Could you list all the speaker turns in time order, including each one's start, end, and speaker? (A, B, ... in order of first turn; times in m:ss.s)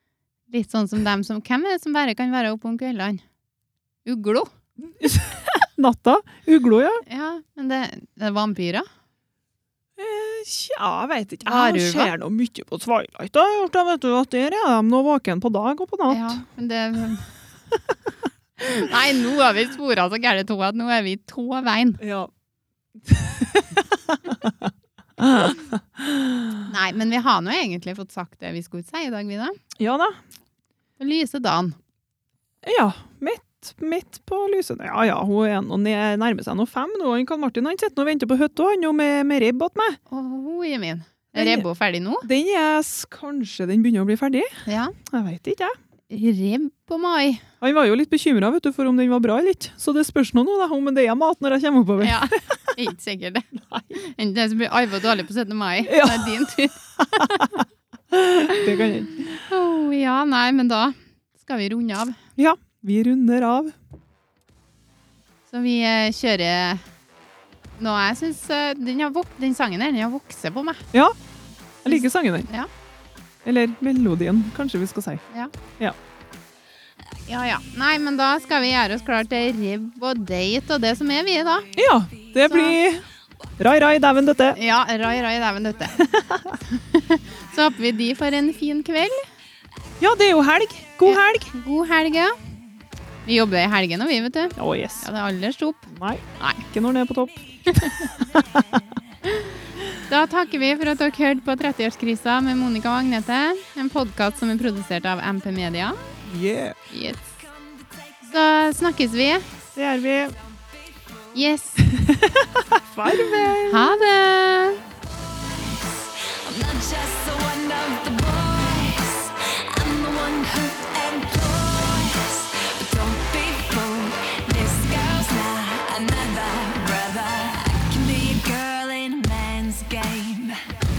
0:00.5-0:03.2 A
0:04.0-0:04.5 A
0:04.9-0:07.0 B
0:07.1-0:08.8 A
0:10.0-0:16.4 B
0:11.4-0:12.1 A
0:16.1-0:17.3 A
0:18.6-0:22.0 A
0:22.0-0:22.3 B
0:23.0-0:26.6 B
0:26.6-0:29.6 A
0:29.8-0:30.2 B
0:31.0-0:31.8 A
0:32.6-0:40.0 B
0:40.1-0:42.3 A
0:41.3-0:41.6 B
0:42.2-0:45.7 B
0:44.6-0:44.9 A
0:46.1-0:47.4 A
0:47.6-0:52.6 B
0:52.0-0:57.6 A
0:53.5-0:53.9 B
0:55.8-0:56.4 B
0:57.0-0:59.3 B
0:58.5-1:02.2 A
1:02.4-1:03.7 B
1:05.5-1:06.8 A
1:07.8-1:10.9 A
1:11.8-1:12.5 B
1:11.9-1:12.7 A
1:13.4-1:15.2 B
1:17.3-1:21.7 A
1:21.7-1:23.0 B
1:22.4-1:22.8 A
1:23.6-1:24.6 B
1:24.5-1:26.1 A
1:26.0-1:26.6 B
1:26.7-1:29.3 A
1:30.0-1:31.5 B
1:31.0-1:32.4 A
1:33.2-1:36.6 A
1:34.6-1:35.1 B
1:35.9-1:38.8 B
1:38.3-1:39.0 C
1:39.2-1:46.0 A
1:46.2-1:46.8 B
1:46.9-1:47.2 A
1:47.4-1:48.4 C
1:48.3-1:49.5 A
1:49.8-1:50.3 B
1:50.4-1:51.4 C
1:51.3-1:51.8 A
1:51.9-1:54.0 B
1:53.6-1:54.8 A
1:54.9-2:10.8 C